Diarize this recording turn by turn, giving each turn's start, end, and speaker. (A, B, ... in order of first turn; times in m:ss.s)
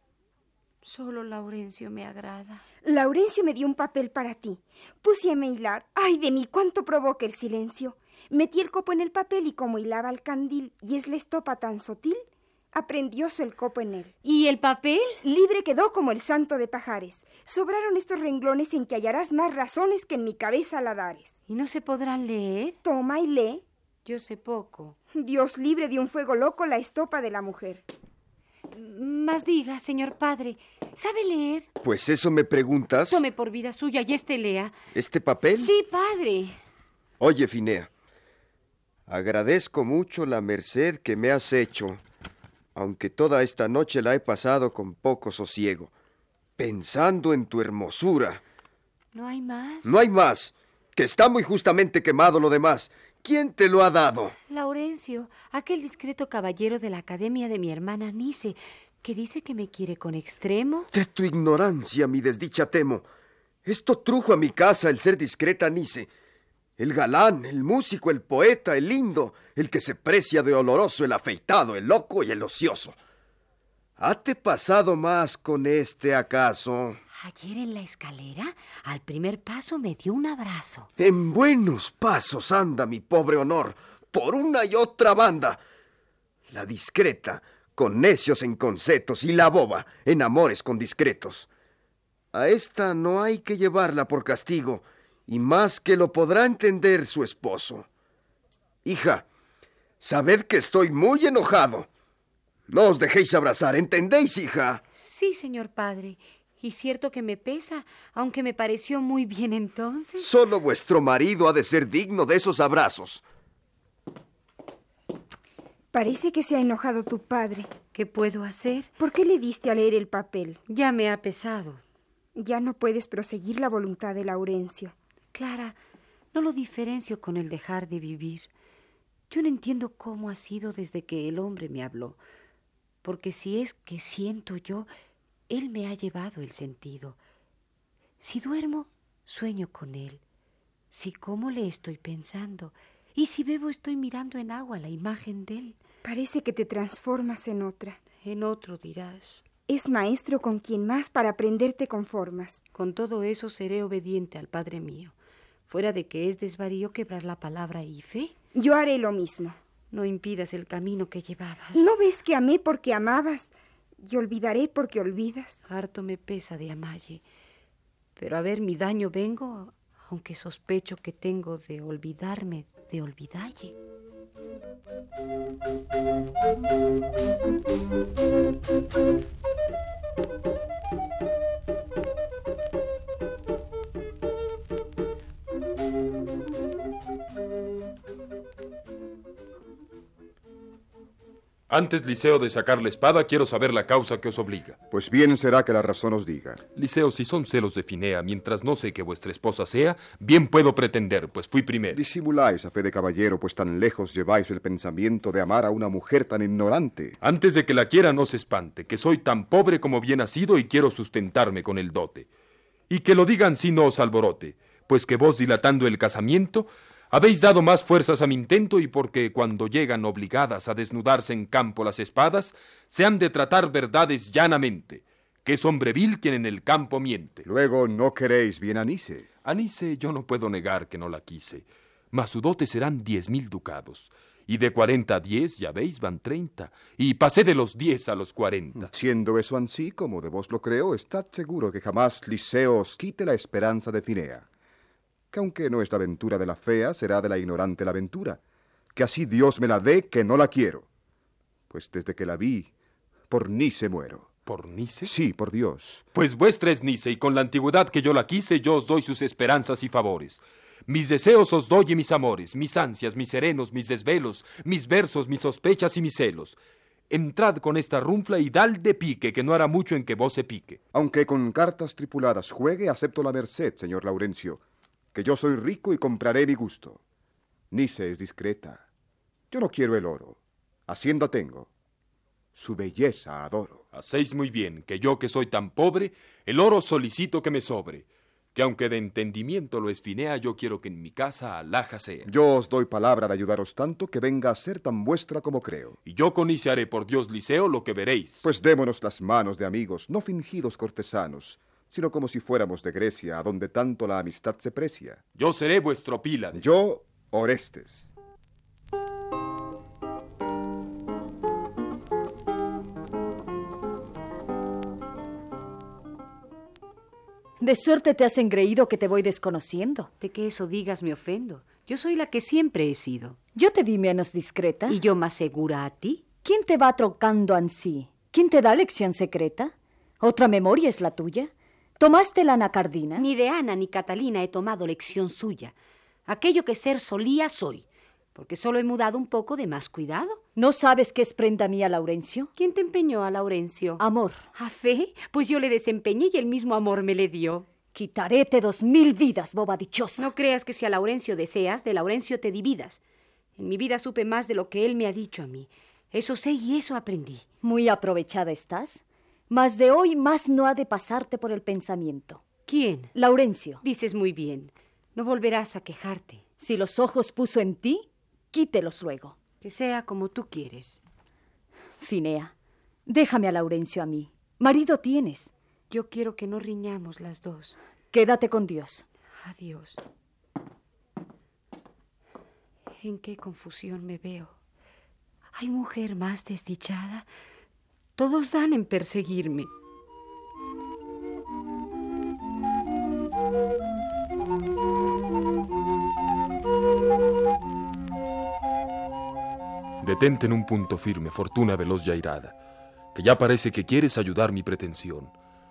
0:00.8-0:02.6 A
0:02.8-0:14.1 B
0:14.2-0:15.2 A
0:15.2-0:21.4 B
0:21.5-0:22.8 A
0:22.8-0:23.6 B
0:24.0-0:25.0 A
0:25.1-0:27.8 B
0:28.7-0:31.7 A
0:31.8-0:33.2 C
0:33.1-0:34.8 A
0:34.9-0:35.7 C
0:35.6-0:36.6 A
0:37.2-0:37.9 C
0:39.1-0:42.0 C
0:42.8-0:45.9 C
0:46.6-0:48.4 C
0:49.1-0:50.0 A
0:49.8-0:54.3 C
0:54.5-1:00.9 A
1:00.9-1:03.1 C
1:03.6-1:06.1 C
1:06.8-1:13.0 C
1:14.0-1:17.0 C
1:17.2-1:20.9 A
1:21.0-1:25.6 C
1:26.5-1:31.5 C
1:32.3-1:37.9 C
1:38.8-1:39.2 C
1:40.0-1:41.9 C
1:42.7-1:44.8 C
1:45.0-1:50.3 A
1:50.2-1:53.2 C
1:55.9-1:57.7 B
1:57.9-1:58.9 A
1:59.0-2:00.6 B
2:00.7-2:01.8 A
2:02.4-2:05.0 B
2:05.3-2:05.8 A
2:06.3-2:08.5 A
2:09.3-2:12.2 A
2:13.0-2:14.9 A
2:15.5-2:17.2 A
2:18.2-2:20.2 A
2:20.9-2:25.8 A
2:26.0-2:28.0 B
2:28.2-2:29.4 A
2:29.7-2:32.6 B
2:32.7-2:35.2 A
2:35.7-2:38.4 A
2:38.6-2:39.6 B
2:39.9-2:41.9 A
2:41.7-2:45.6 B
2:45.7-2:47.2 A
2:48.2-2:53.7 A
3:11.7-3:14.8 D
3:14.9-3:16.6 E
3:16.8-3:22.0 D
3:21.9-3:27.2 E
3:27.2-3:32.3 D
3:32.9-3:47.4 D
3:47.4-3:49.3 E
3:49.4-3:58.9 D
3:58.8-4:04.5 E
4:05.3-4:08.4 E
4:08.9-4:10.9 E
4:11.7-4:12.7 E
4:13.3-4:14.3 E
4:14.5-4:15.1 D
4:15.0-4:16.0 E
4:16.1-4:26.6 D
4:27.1-4:30.8 D
4:30.9-4:34.6 E
4:35.1-4:37.0 E
4:37.7-4:38.8 E
4:39.5-4:41.7 E
4:42.6-4:43.8 E
4:43.9-4:52.3 D
4:52.2-4:56.0 E
4:56.1-4:58.5 D
4:58.4-5:05.2 E
5:05.4-5:06.7 D
5:06.5-5:08.1 E
5:17.6-5:20.1 F
5:20.2-5:23.4 A
5:23.6-5:25.0 F
5:24.9-5:26.2 A
5:26.4-5:33.3 F
5:33.2-5:35.7 A
5:36.3-5:40.4 A
5:40.6-5:42.5 F
5:42.6-5:44.0 A
5:44.0-5:44.5 F
5:44.6-5:47.7 A
5:47.9-5:50.3 F
5:50.2-5:53.0 A
5:53.6-5:57.4 A
5:57.6-6:02.4 F
6:02.7-6:03.1 A
6:03.1-6:03.8 F
6:03.8-6:06.4 A
6:06.6-6:09.4 F
6:09.6-6:11.0 A
6:12.0-6:12.5 F
6:13.1-6:15.5 F
6:15.9-6:17.8 A
6:18.1-6:19.1 F
6:19.4-6:20.0 A
6:23.0-6:24.6 A
6:25.6-6:27.3 A
6:28.2-6:29.7 A
6:40.0-6:42.6 D
6:43.1-6:45.3 D